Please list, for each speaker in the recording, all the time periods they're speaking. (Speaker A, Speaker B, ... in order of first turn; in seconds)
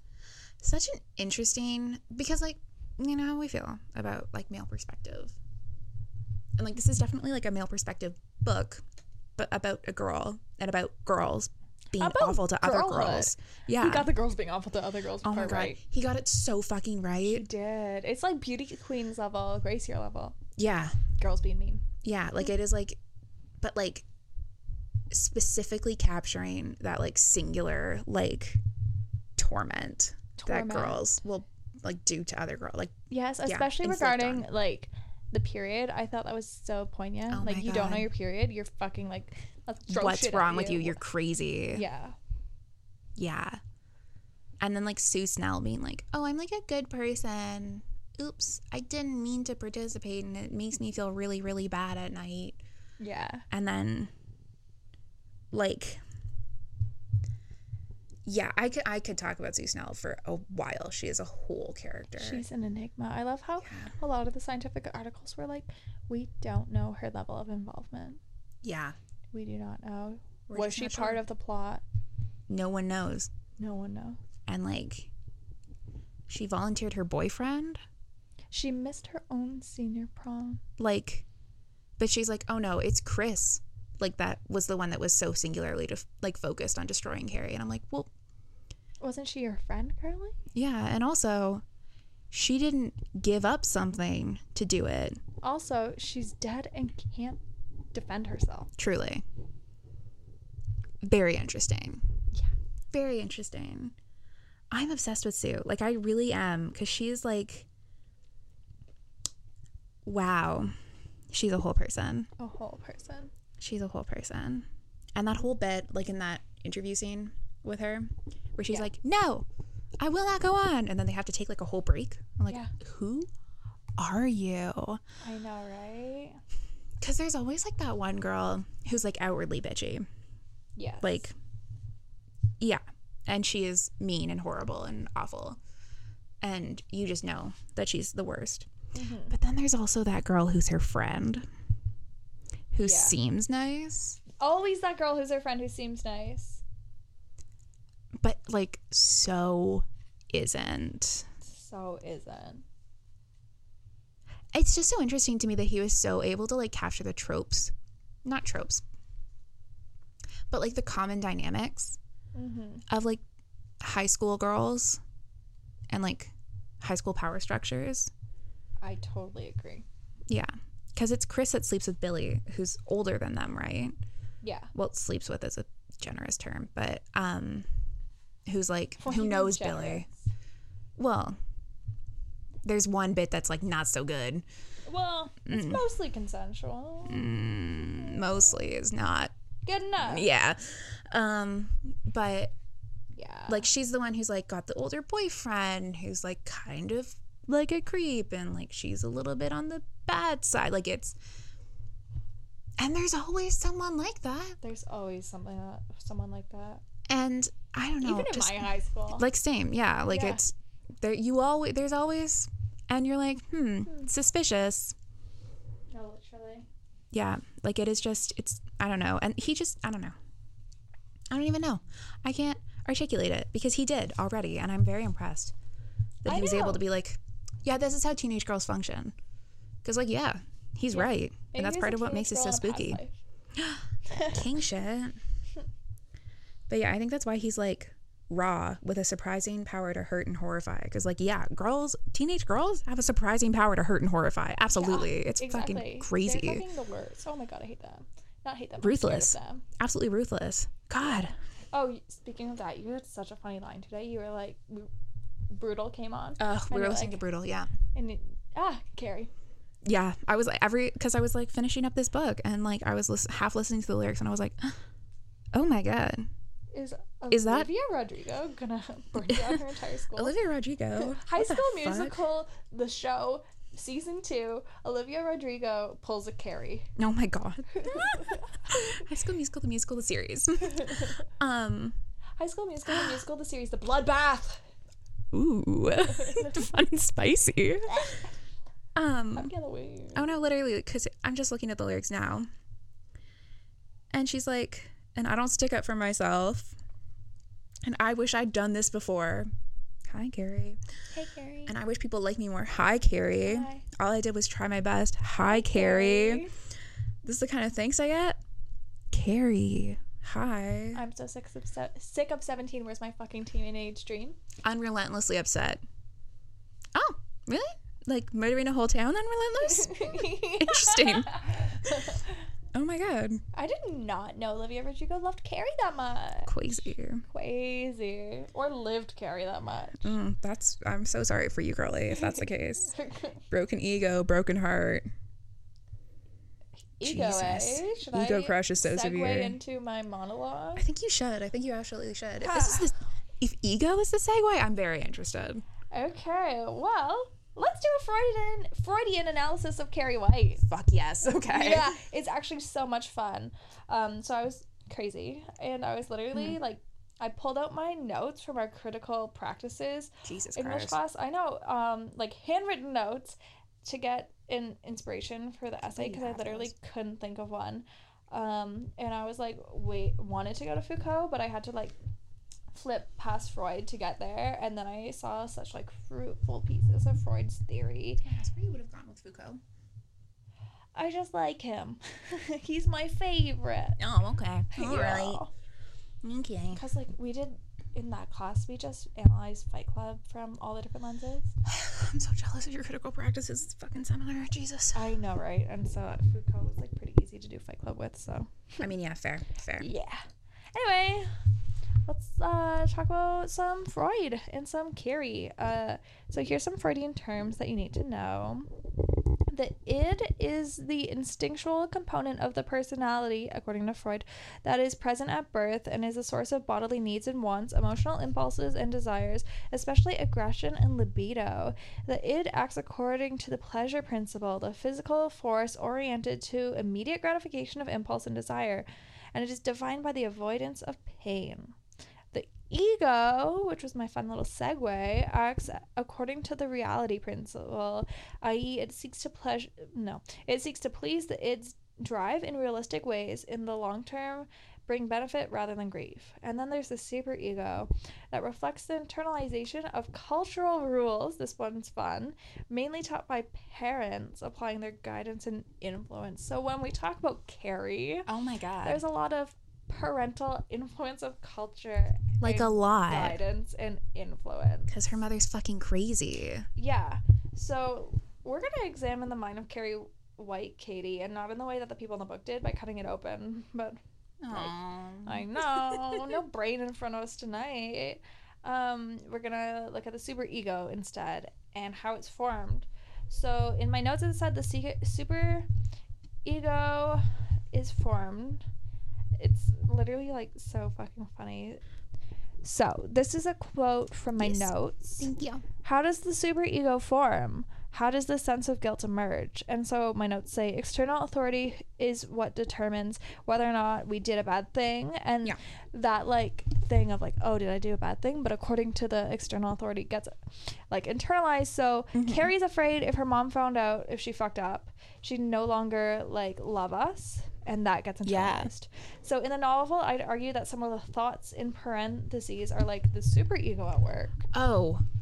Speaker A: 0.6-5.3, 6.6-8.8, 9.3-14.1, 15.2-17.4, 20.6-21.0, 22.0-23.0, 23.6-24.1, 25.1-28.6, 29.4-34.5, 37.3-38.1, 39.9-41.8, 43.1-43.6, 44.6-52.6, 53.5-54.1, 55.5-56.0, 58.2-62.4, 63.6-63.9, 68.6-69.0, 70.5-71.2, 72.5-73.3, 74.5-75.1, 76.3-77.8, 80.8-81.2, 82.0-88.1, 90.5-91.6, 92.3-95.2, 98.8-99.2, 101.0-102.0, 102.9-103.9, 104.7-107.7, 110.0-110.7, 111.3-112.3, 113.6-119.5, 120.0-123.3, 124.0-125.0, 127.0-130.0, 131.0-131.3, 132.6-135.6, 136.4-138.7, 139.3-141.4, 142.7-144.2, 148.2-151.3, 154.5-157.7, 158.2-158.8, 160.5-162.0, 162.9-163.2, 163.8-165.0, 165.9-168.1, 170.3-173.9, 174.7-177.7, 178.5-180.1, 181.0-181.4, 182.6-184.4, 185.5-185.8, 187.1-189.3, 190.0-192.5, 193.5-201.2, 202.8-204.6, 207.1-214.9, 217.1-220.1, 221.3-225.5, 226.2-229.1, 229.8-233.0, 233.6-235.2, 236.7-246.6, 248.8-251.3, 256.4-257.7, 259.8-264.8, 265.5-266.3, 267.3-267.7, 269.2-269.6, 270.1-272.2, 277.0-281.9, 282.9-283.2, 285.3-288.1, 288.9-289.5, 290.1-292.5, 294.1-296.7, 297.8-299.5, 300.1-300.8, 301.7-306.4, 307.2-308.4, 309.1-311.0, 314.6-315.8, 316.9-322.1, 322.7-323.4, 326.4-327.2, 330.0-332.9, 333.5-335.1, 337.0-339.6, 340.8-345.6, 350.7-352.0, 360.2-361.0, 365.9-366.7, 378.2-379.6, 384.0-385.4, 386.2-386.8, 391.6-395.1, 398.8-399.9, 458.3-459.0, 462.4-463.4, 464.9-466.6, 474.4-476.4, 494.4-495.6, 512.1-512.5, 518.2-518.7, 524.5-525.0
Speaker B: 12.0-15.8, 17.2-20.4, 21.1-21.8, 30.4-31.0, 33.1-41.0, 41.7-42.1, 53.0-53.4, 62.2-68.2, 69.3-71.8, 73.6-74.2, 78.5-80.6, 89.0-90.3, 95.4-97.4, 97.9-98.7, 112.4-113.3, 122.5-122.7, 125.2-126.4, 130.8-131.2, 138.9-139.3, 142.8-143.1, 144.4-146.6, 151.4-152.6, 162.3-162.8, 168.8-169.8, 174.4-174.7, 179.0-180.1, 184.8-187.3, 189.6-190.3, 193.1-193.7, 204.6-206.8, 208.0-209.2, 210.1-210.4, 215.9-216.7, 226.3-226.8, 230.9-233.1, 234.1-234.4, 244.7-249.6, 251.7-254.9, 255.5-257.2, 257.9-259.3, 266.7-270.3, 270.9-276.9, 277.7-279.0, 280.6-281.2, 282.4-284.6, 286.0-286.6, 287.9-288.3, 289.3-290.3, 301.1-301.7, 303.4-303.9, 305.4-306.5, 310.9-314.4, 319.6-322.4, 323.5-330.1, 332.1-333.4, 337.0-340.9, 342.4-342.9, 345.9-350.7, 351.4-371.9, 372.7-378.2, 380.9-384.0, 384.7-385.5, 386.7-391.5, 394.9-398.8, 399.8-400.2, 400.7-401.3, 402.1-408.7, 409.5-431.7, 432.3-458.3, 458.8-464.9, 466.8-474.0, 475.2-485.7, 486.4-488.6, 489.4-491.8, 492.6-495.3, 495.8-510.3, 510.9-524.5